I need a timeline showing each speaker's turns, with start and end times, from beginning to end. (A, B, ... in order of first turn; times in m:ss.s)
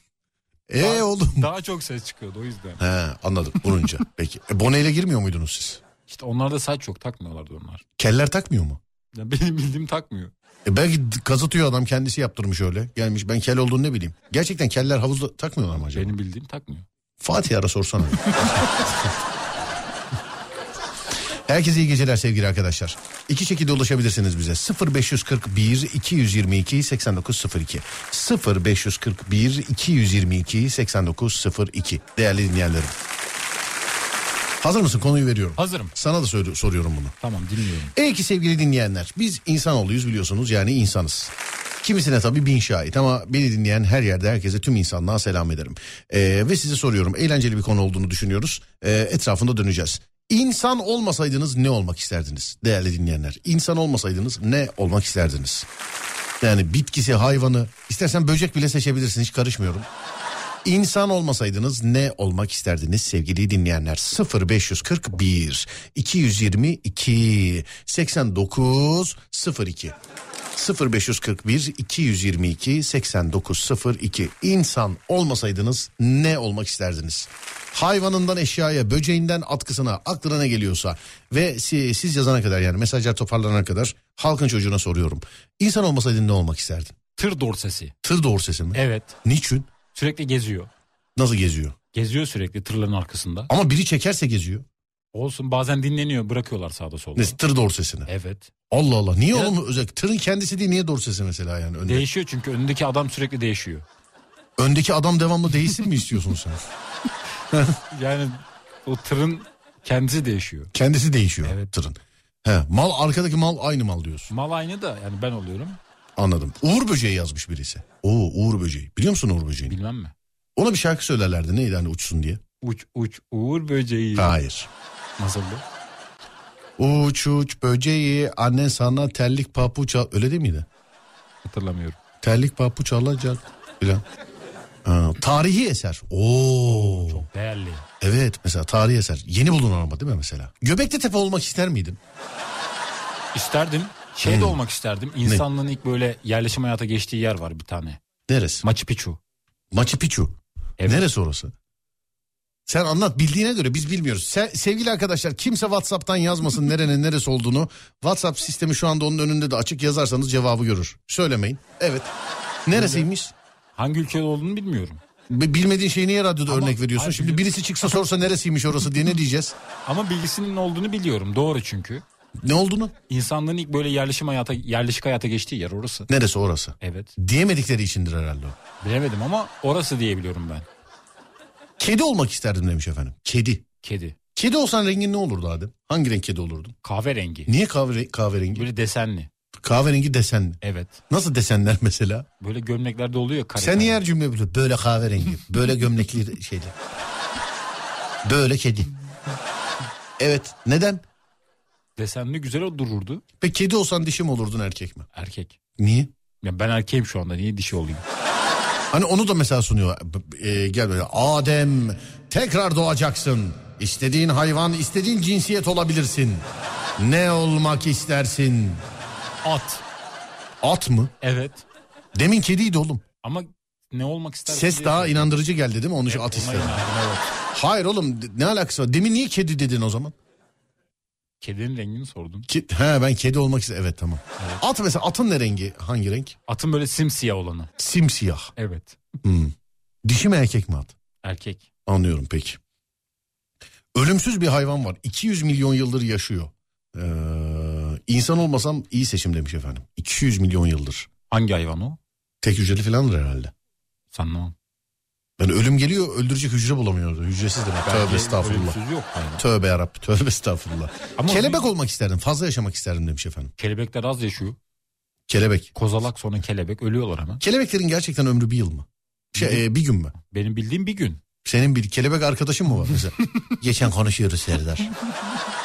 0:00.7-0:01.5 A
0:00.8-0:02.8 B
0:02.8-0:05.8 A
0:06.1-0:07.8 B
0:08.0-0:08.8 A
0:09.2-0:10.3 B
0:10.7-0:16.1 A
0:15.9-0:16.9 B
0:17.2-0:19.1 A
0:18.2-0:18.7 B
0:21.5-0:33.0 A
0:34.6-0:37.2 A
0:35.6-0:35.9 B
0:37.2-0:37.9 B
0:37.9-0:55.7 A
0:56.4-0:59.9 A
1:00.6-1:10.0 A
1:10.6-1:27.0 A
1:27.2-1:28.0 B
1:28.0-1:29.7 A
1:28.7-1:29.2 B
1:29.9-1:30.7 B
1:31.2-1:31.8 A
1:31.9-1:33.5 B
1:33.5-1:34.7 A
1:35.1-1:37.4 B
1:37.2-1:38.1 A
1:38.1-1:38.5 B
1:38.7-1:42.1 A
1:41.8-1:43.8 B
1:44.6-1:46.6 A
1:47.5-1:47.8 A
1:47.9-1:50.7 B
1:50.7-1:54.3 A
1:51.4-1:51.7 B
1:54.3-1:55.8 B
1:56.2-1:59.8 A
1:59.7-2:00.1 B
2:00.6-2:02.4 A
2:02.6-2:04.3 B
2:04.2-2:04.7 A
2:05.2-2:05.6 B
2:06.8-2:10.7 A
2:11.4-2:12.0 B
2:12.2-2:14.0 A
2:14.8-2:17.3 A
2:16.7-2:17.9 B
2:18.0-2:22.0 A
2:23.3-2:28.0 B
2:24.2-2:24.6 A
2:28.3-2:28.6 A
2:28.6-2:29.2 B
2:29.7-2:31.5 A
2:30.8-2:31.0 B
2:32.7-2:42.1 A
2:42.7-2:43.3 A
2:42.7-2:43.1 B
2:43.8-2:45.0 B
2:45.3-2:49.6 A
2:46.5-2:47.9 B
2:49.9-2:52.0 B
2:52.4-2:52.9 A
2:53.1-2:56.1 B
2:56.1-2:58.6 A
2:56.8-2:57.1 B
2:58.8-3:00.7 B
3:01.8-3:03.7 A
3:03.8-3:04.2 B
3:04.4-3:06.8 A
3:06.8-3:07.5 B
3:07.5-3:08.7 A
3:08.6-3:09.3 B
3:09.6-3:12.3 A
3:10.6-3:11.0 B
3:12.4-3:14.0 B
3:13.6-3:16.8 A
3:18.2-3:18.9 A
3:20.2-3:21.0 A
3:22.0-3:23.2 B
3:23.4-3:25.1 A
3:25.1-3:25.6 B
3:25.8-3:26.1 A
3:26.4-3:28.0 B
3:28.9-3:36.4 A
3:37.0-3:38.8 A
3:39.4-3:39.8 B
3:40.6-3:41.1 A
3:41.2-3:41.6 B
3:42.2-3:43.0 A
3:43.2-3:45.4 B
3:44.5-3:46.8 A
3:46.1-3:47.4 B
3:47.5-3:50.2 A
3:51.4-3:52.5 B
3:52.5-3:56.4 A
3:56.5-3:57.7 B
3:57.8-3:58.5 A
3:58.6-3:59.0 B
3:59.2-4:01.0 A
4:01.2-4:01.7 B
4:01.9-4:02.6 A
4:04.0-4:11.1 A
4:11.3-4:12.0 B
4:12.4-4:13.5 A
4:14.1-4:14.6 B
4:15.4-4:18.8 A
4:17.8-4:19.4 B
4:19.4-4:23.5 A
4:21.2-4:21.7 B
4:23.6-4:24.6 B
4:25.3-4:25.7 A
4:25.8-4:27.4 B
4:27.4-4:30.2 A
4:29.4-4:29.6 B
4:30.2-4:31.2 B
4:31.4-4:34.9 A